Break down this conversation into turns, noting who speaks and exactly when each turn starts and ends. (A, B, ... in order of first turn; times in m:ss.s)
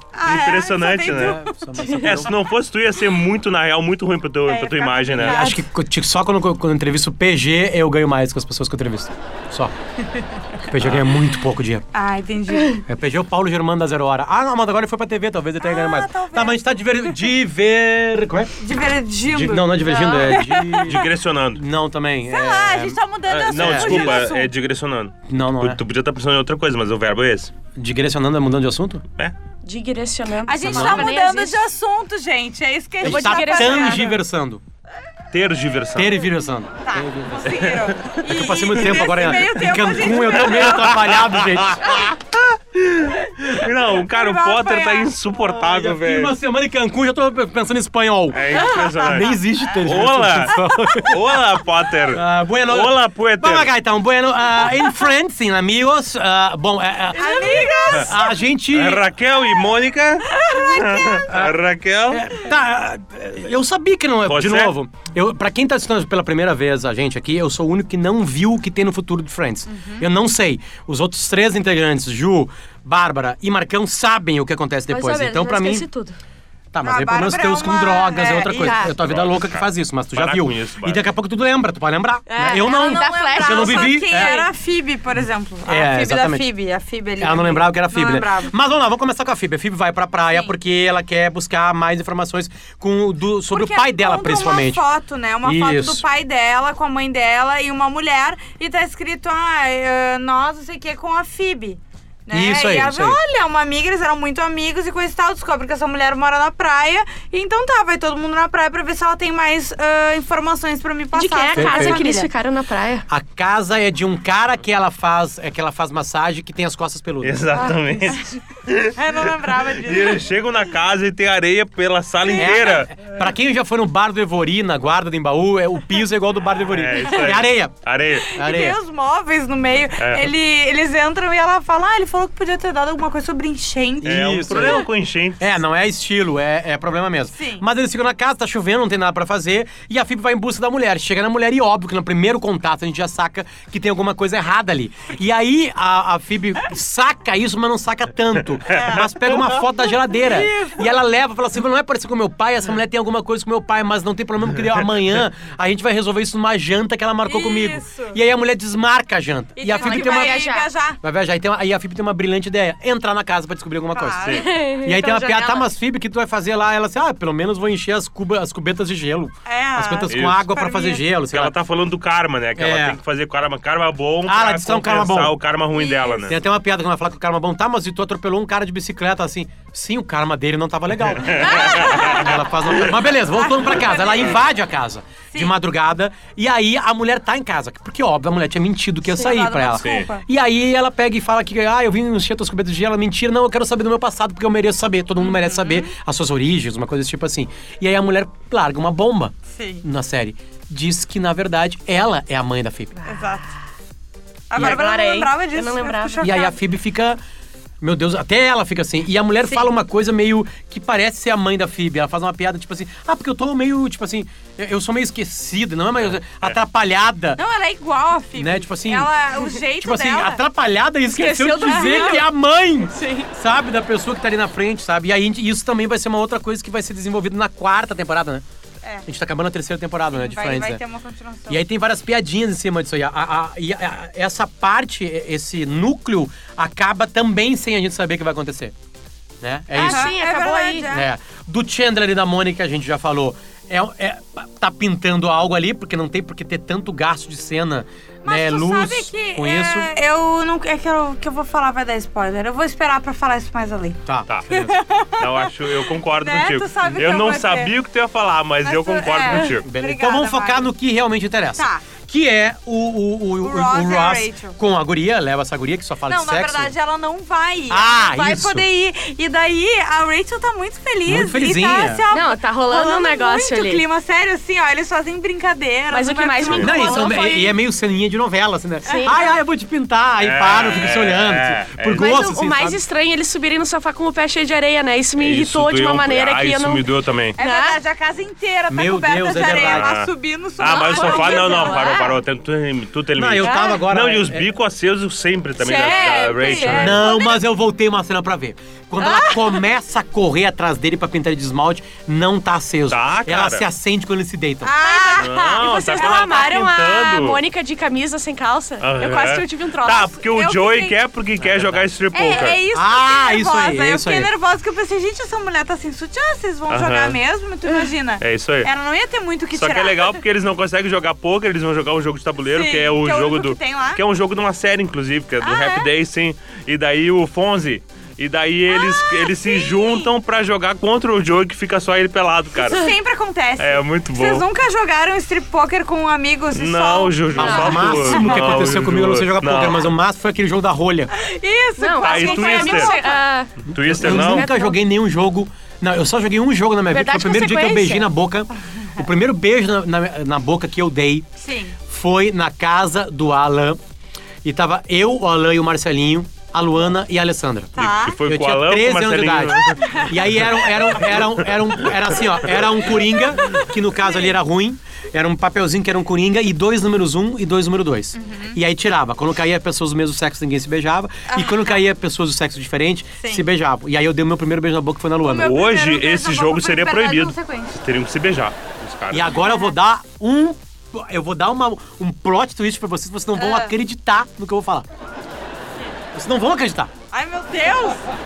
0:00.1-0:01.5 A
0:00.2-0:05.5 B
0:01.0-0:02.4 C
0:01.8-0:02.1 D
0:04.5-0:05.6 A
0:05.2-0:09.7 C
0:10.6-0:11.8 C
0:10.8-0:11.0 B
0:11.9-0:12.8 A
0:12.8-0:18.5 C
0:15.6-0:17.1 A
0:18.6-0:21.0 A
0:19.2-0:23.0 C
0:19.9-0:20.4 D
0:20.8-0:21.6 B
0:22.3-0:24.5 A
0:23.3-0:27.5 B
0:23.5-0:24.2 C
0:25.3-0:25.8 C
0:27.8-0:29.0 C
0:29.6-0:31.6 D
0:30.4-0:34.2 A
0:30.6-0:31.1 C
0:33.0-0:34.1 D
0:33.0-0:34.6 C
0:35.3-0:36.1 B
0:36.0-0:37.6 C
0:36.8-0:41.0 A
0:37.5-0:38.1 B
0:38.2-0:42.0 C
0:40.4-0:46.3 B
0:44.1-0:45.1 A
0:45.5-0:51.4 C
0:48.3-0:53.7 B
0:50.7-0:51.0 A
0:52.1-0:59.0 C
0:57.1-0:58.3 A
0:58.7-1:02.4 B
1:00.3-1:01.2 A
1:01.3-1:01.6 C
1:02.1-1:15.9 C
1:04.2-1:04.7 B
1:09.7-1:10.0 A
1:14.9-1:16.2 D
1:16.7-1:24.4 C
1:16.8-1:18.9 A
1:18.5-1:18.9 D
1:19.0-1:21.0 B
1:22.3-1:24.5 D
1:22.6-1:28.5 A
1:25.6-1:26.4 C
1:27.2-1:34.8 C
1:33.5-1:52.3 A
1:35.4-1:36.0 C
1:42.3-1:43.2 C
1:51.1-1:53.0 D
1:51.5-1:52.0 C
1:53.1-1:57.7 C
1:57.2-2:03.1 B
1:58.9-2:00.2 A
2:02.4-2:07.8 C
2:06.7-2:08.3 B
2:08.2-2:14.8 A
2:08.3-2:08.8 C
2:10.0-2:10.3 B
2:14.0-2:40.5 C
2:14.0-2:15.5 B
2:17.3-2:17.6 A
2:28.7-2:29.0 A
2:30.0-2:30.9 A
2:37.2-2:38.2 A
2:39.6-2:41.0 A
2:39.7-2:40.7 D
2:41.0-2:51.5 C
2:43.9-2:44.5 A
2:44.3-2:45.6 D
2:49.4-2:51.0 A
2:50.1-2:50.4 B
2:51.3-2:56.4 B
2:52.6-2:53.0 C
2:54.2-2:55.4 C
2:55.7-2:56.3 A
2:56.3-3:23.1 C
3:01.1-3:02.9 B
3:01.5-3:02.3 A
3:03.4-3:04.3 A
3:09.1-3:10.2 A
3:09.8-3:10.1 B
3:15.2-3:15.9 A
3:19.5-3:19.8 A
3:23.1-3:23.5 A
3:24.5-3:26.6 A
3:24.5-3:26.3 D
3:24.6-3:24.8 C
3:26.2-3:27.2 C
3:27.8-3:37.4 C
3:37.4-3:40.4 A
3:38.4-3:39.1 C
3:39.8-3:48.4 C
3:41.1-3:42.3 D
3:41.6-3:42.2 A
3:42.9-3:43.3 D
3:49.0-3:50.8 C
3:50.1-3:51.6 A
3:51.5-3:58.7 C
3:59.4-4:00.2 C
3:59.7-4:00.9 D
3:59.7-4:01.1 A
4:00.9-4:09.9 C
4:08.2-4:15.5 A
4:14.0-4:14.7 C
4:14.3-4:14.5 B
4:15.2-4:19.7 B
4:16.2-4:17.7 A
4:18.6-4:20.7 A
4:19.5-4:26.7 C
4:21.6-4:21.8 A
4:23.4-4:24.6 A
4:26.1-4:37.2 A
4:27.7-4:28.6 C
4:31.0-4:32.0 C
4:32.1-4:33.8 D
4:35.9-4:37.5 D
4:36.4-4:36.7 B
4:36.6-4:42.8 C
4:38.8-4:39.2 D
4:38.8-4:39.3 A
4:40.2-4:42.1 B
4:41.9-4:47.8 D
4:45.2-4:47.4 B
4:47.4-4:52.1 A
4:48.7-4:49.9 C
4:49.4-4:57.0 B
4:50.6-4:52.2 D
4:53.1-4:54.5 C
4:53.4-4:53.8 D
4:55.6-4:57.4 A
4:55.7-4:56.8 D
4:56.7-5:04.7 C
5:02.9-5:03.6 B
5:04.6-5:06.4 A
5:04.8-5:10.2 D
5:05.2-5:07.4 B
5:08.8-5:12.6 B
5:10.2-5:11.0 A
5:11.4-5:11.8 C
5:12.1-5:20.2 A
5:12.7-5:14.3 C
5:16.7-5:17.2 B
5:18.2-5:18.7 B
5:19.5-5:32.9 B
5:22.5-5:24.0 A
5:25.4-5:25.9 A
5:28.7-5:30.1 A
5:32.6-5:38.2 A
5:33.6-5:34.4 B
5:36.5-5:39.9 B
5:37.3-5:41.1 C
5:37.4-5:38.2 D
5:41.1-5:43.2 A
5:41.8-5:44.8 D
5:42.0-5:43.0 B
5:43.6-5:44.5 B
5:43.7-5:51.3 C
5:46.9-5:48.1 D
5:51.4-5:51.8 A
5:51.9-5:53.8 C
5:54.4-6:15.6 C
5:57.8-5:58.2 A
5:57.8-6:01.3 B
6:03.3-6:04.3 A
6:08.1-6:08.6 A
6:11.3-6:11.7 A
6:13.2-6:13.4 A
6:15.2-6:17.8 A
6:15.4-6:19.3 B
6:19.1-6:24.9 C
6:19.3-6:19.7 A
6:23.4-6:23.7 A
6:26.1-6:26.9 C
6:27.1-6:28.1 A